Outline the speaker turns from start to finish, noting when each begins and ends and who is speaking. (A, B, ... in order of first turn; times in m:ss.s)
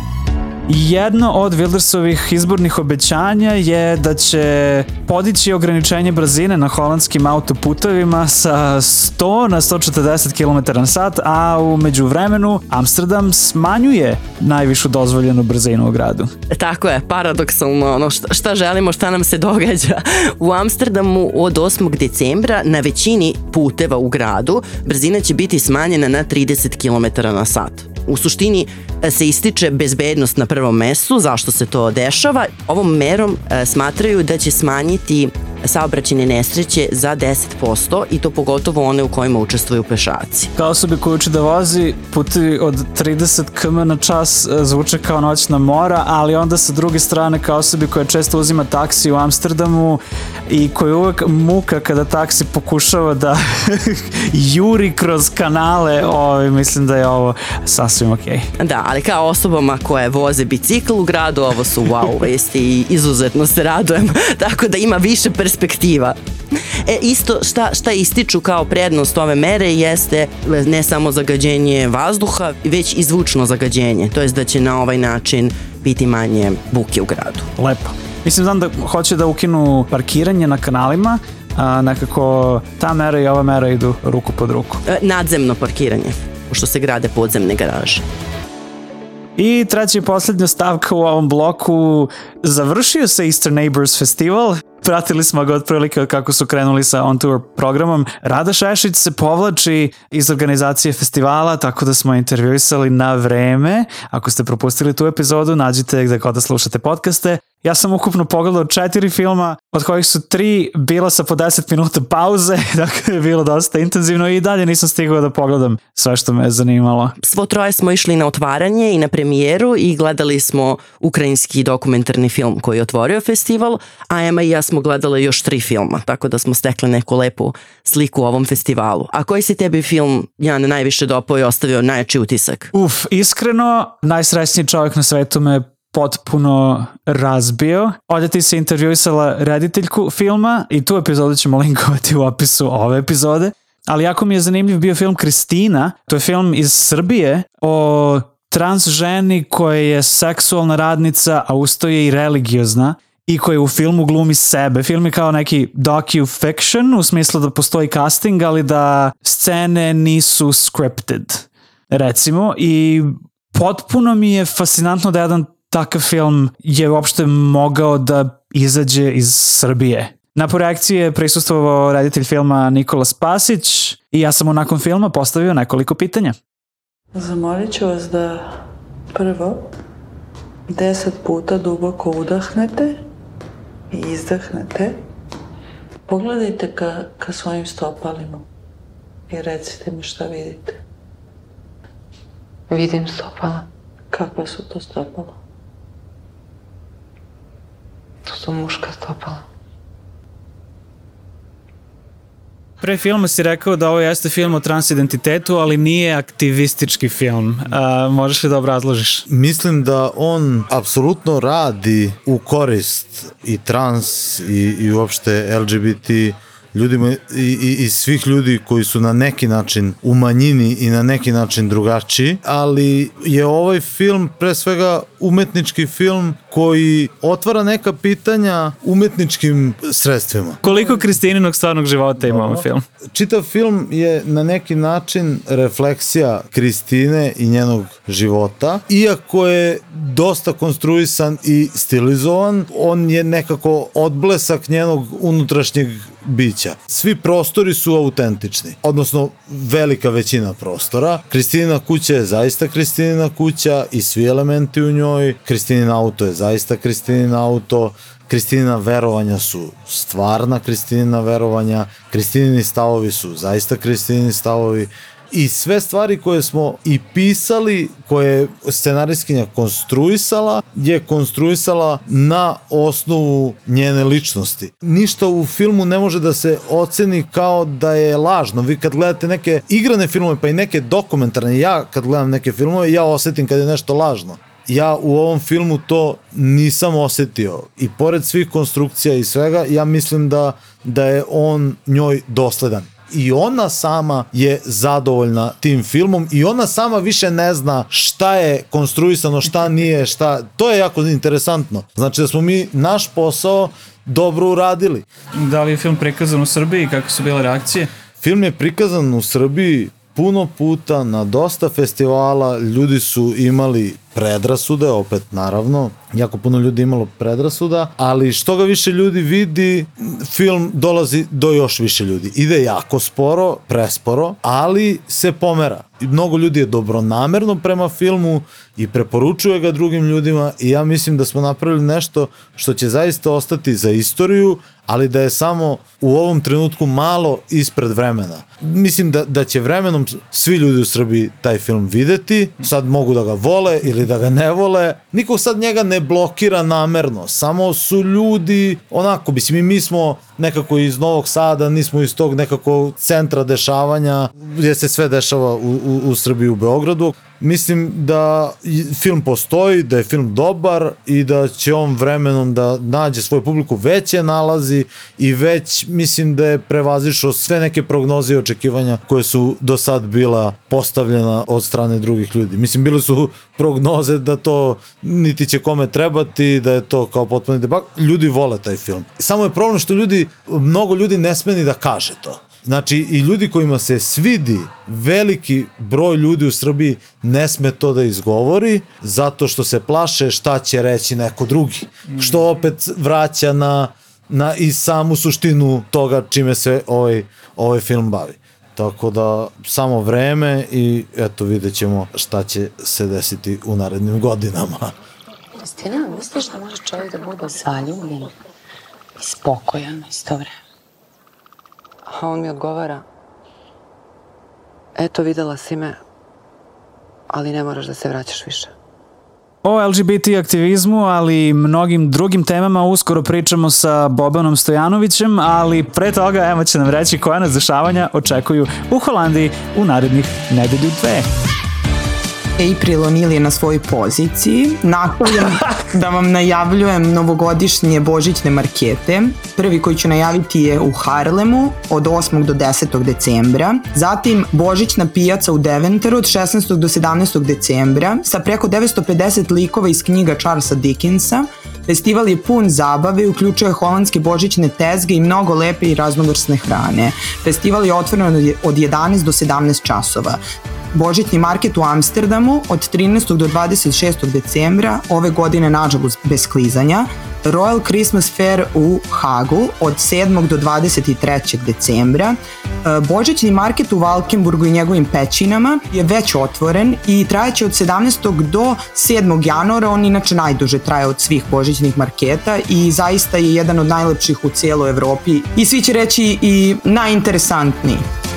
0:00.7-0:16.3 A
0:16.5-0:40.5 B
0:40.6-0:58.4 A
0:58.6-1:06.2 B
1:06.8-1:17.5 B
1:17.6-1:24.8 A
1:24.9-1:28.0 B
1:29.4-1:57.1 A
1:57.2-2:12.7 B
2:12.7-2:56.3 A
2:57.1-2:59.7 C
3:00.7-3:03.0 C
3:03.9-3:05.0 C
3:06.1-3:08.5 C
3:09.3-3:10.8 C
3:12.7-3:13.7 D
3:14.1-3:15.3 C
3:18.2-3:19.4 D
3:22.8-3:29.2 A
3:29.3-3:51.0 E
3:50.6-3:52.8 A
3:52.2-5:05.0 E
5:05.4-5:07.9 A
5:08.2-6:44.9 E
6:45.6-6:48.3 D
6:49.2-6:50.5 D
6:52.0-6:53.0 D
6:55.0-6:56.0 D
6:57.3-6:58.7 D
6:59.6-7:11.3 A
7:12.6-7:40.4 F
7:40.9-8:08.0 F